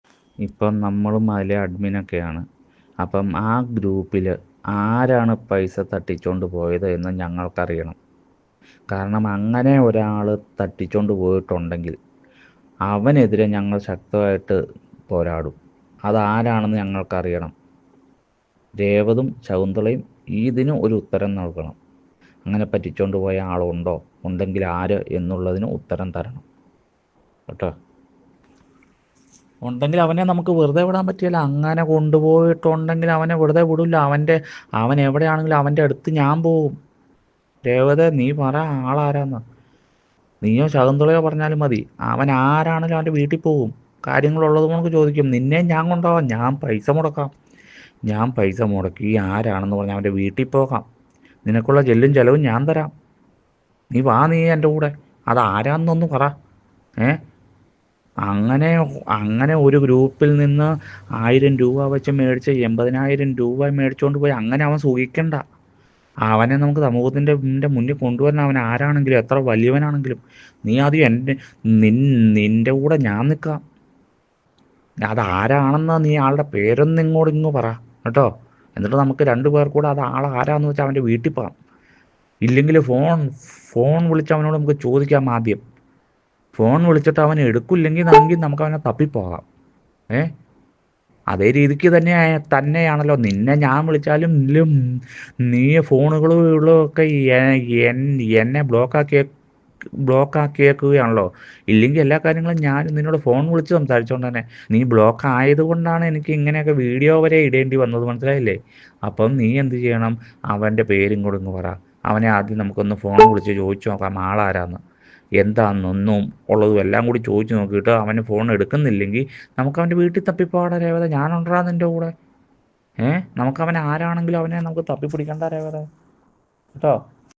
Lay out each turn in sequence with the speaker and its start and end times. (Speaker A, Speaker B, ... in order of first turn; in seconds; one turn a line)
Speaker A: 0.4-2.4
Speaker A: 3.0-8.0
Speaker A: 8.9-11.9
Speaker A: 12.9-14.6
Speaker A: 15.1-15.5
Speaker A: 16.1-17.5
Speaker A: 18.8-21.8
Speaker A: 22.5-26.4
Speaker A: 29.6-36.7
Speaker A: 37.6-39.4
Speaker A: 40.4-47.3
Speaker A: 48.1-50.9
Speaker A: 51.5-52.9
Speaker A: 53.9-56.3
Speaker A: 58.3-65.4
Speaker A: 66.3-73.6
Speaker A: 75.0-81.5
Speaker A: 82.5-85.6
Speaker A: 86.6-89.4
Speaker A: 91.3-94.7
Speaker A: 95.5-99.3
Speaker A: 100.1-114.8
Speaker A: 115.4-122.1
Speaker A: 123.0-125.9